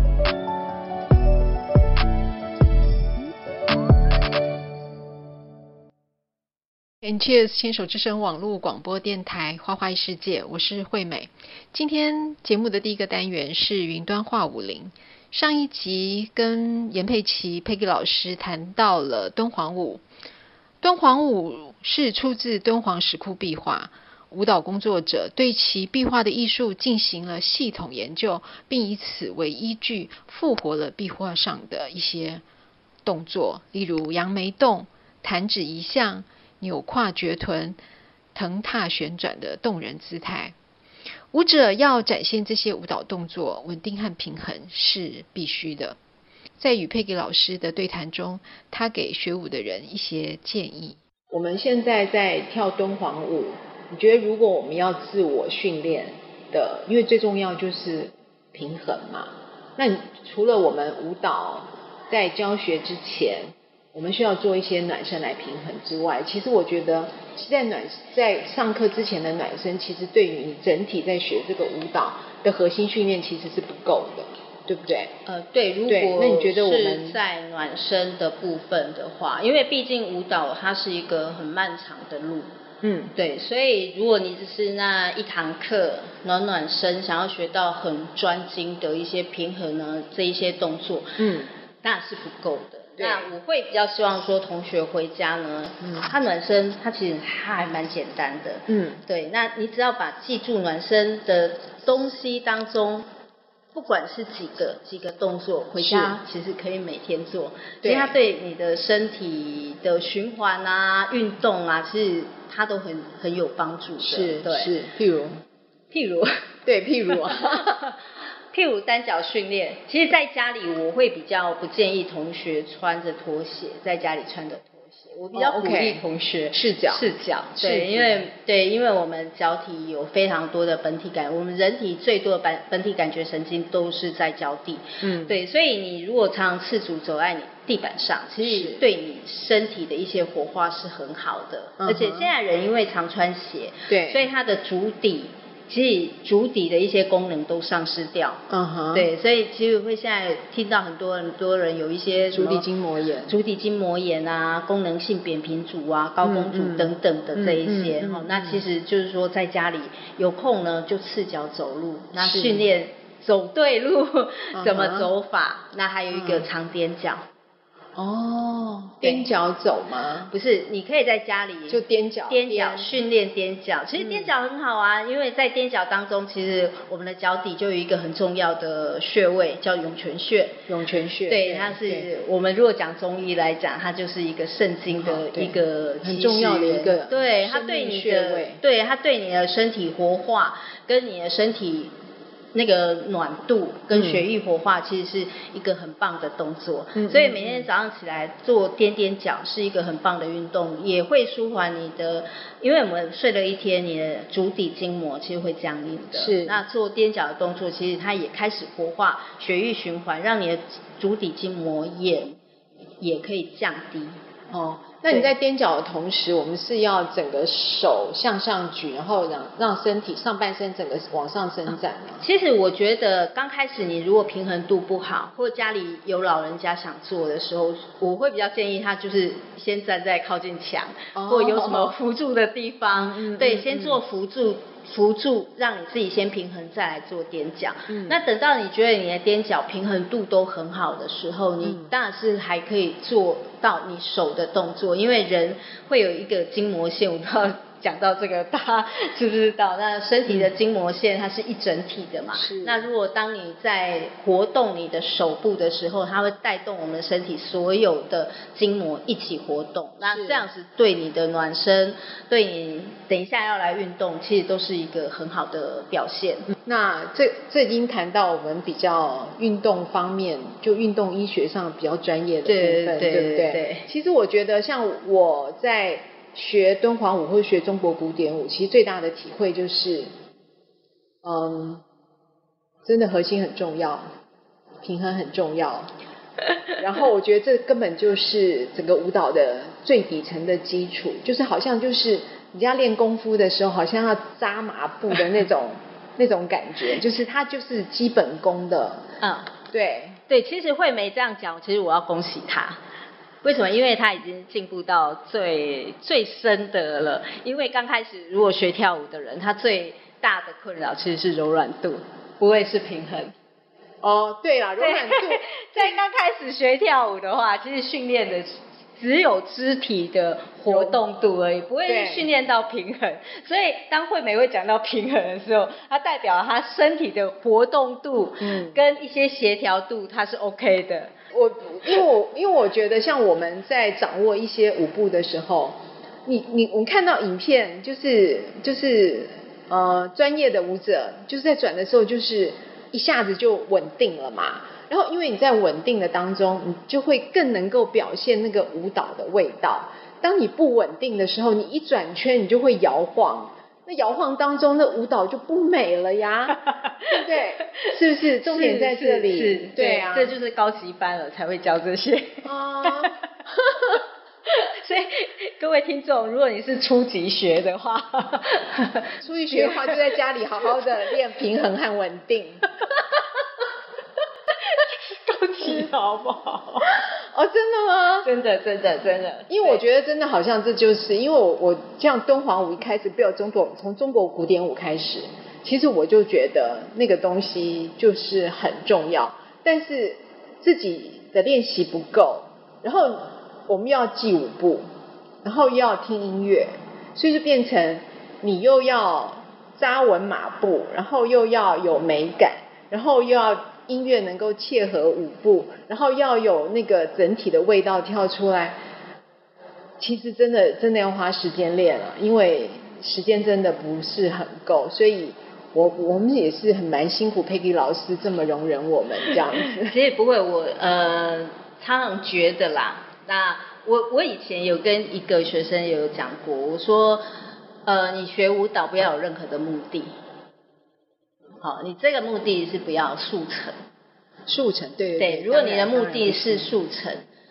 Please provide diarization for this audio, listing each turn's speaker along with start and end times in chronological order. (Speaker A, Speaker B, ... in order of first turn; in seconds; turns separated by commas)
Speaker A: 7.0-20.0, Speaker A: 20.8-32.4, Speaker A: 33.0-37.8, Speaker A: 38.3-40.5, Speaker A: 41.3-46.0, Speaker A: 46.6-75.1, Speaker B: 75.2-82.5, Speaker A: 75.9-77.2, Speaker A: 82.8-83.1, Speaker B: 83.1-91.2, Speaker A: 91.2-91.5, Speaker B: 91.8-103.0, Speaker A: 93.0-93.3, Speaker A: 98.7-99.0, Speaker B: 103.7-114.7, Speaker A: 105.8-106.2, Speaker A: 107.8-108.2, Speaker A: 114.0-115.4, Speaker B: 115.9-116.3, Speaker A: 116.7-117.8, Speaker B: 117.1-148.4, Speaker A: 125.3-128.2, Speaker A: 135.0-135.4, Speaker A: 138.4-138.8, Speaker A: 141.8-142.3, Speaker A: 143.9-144.3, Speaker A: 148.5-149.1, Speaker B: 148.9-152.7, Speaker A: 152.3-153.3, Speaker B: 153.3-167.2, Speaker A: 156.2-158.6, Speaker A: 162.2-162.7, Speaker A: 164.5-165.1, Speaker A: 166.1-166.5, Speaker A: 167.9-170.3, Speaker B: 169.0-169.3, Speaker B: 170.3-180.6, Speaker A: 171.7-173.0, Speaker A: 174.0-174.3, Speaker A: 180.7-182.1, Speaker B: 181.3-191.9, Speaker A: 185.0-188.6, Speaker B: 192.5-212.4, Speaker A: 193.9-194.2, Speaker A: 196.9-197.7, Speaker A: 206.1-206.6, Speaker B: 213.0-214.2, Speaker A: 214.5-222.2, Speaker B: 222.2-266.5, Speaker A: 231.1-231.9, Speaker A: 233.1-234.0, Speaker A: 237.9-238.2, Speaker A: 241.6-241.9, Speaker A: 252.3-252.9, Speaker A: 260.0-260.4, Speaker A: 266.6-280.1, Speaker B: 272.4-273.9, Speaker A: 281.2-281.8, Speaker A: 282.8-284.1, Speaker A: 284.8-285.9, Speaker A: 286.8-299.0, Speaker B: 299.2-299.5, Speaker A: 299.7-300.2, Speaker B: 300.3-302.8, Speaker B: 303.4-313.3, Speaker A: 314.0-315.9, Speaker B: 314.8-331.1, Speaker A: 320.7-321.0, Speaker A: 321.9-322.3, Speaker A: 328.4-328.8, Speaker A: 331.3-360.3, Speaker B: 356.6-357.2, Speaker B: 358.4-363.1, Speaker A: 362.4-363.1, Speaker B: 363.8-370.0, Speaker A: 369.2-372.6, Speaker B: 374.5-377.0, Speaker A: 377.0-378.3, Speaker B: 378.2-379.8, Speaker A: 379.5-394.8, Speaker A: 395.4-408.8, Speaker A: 410.0-419.9, Speaker B: 419.8-427.2, Speaker B: 427.9-430.1, Speaker B: 431.6-433.8, Speaker A: 434.5-436.7, Speaker B: 435.2-437.2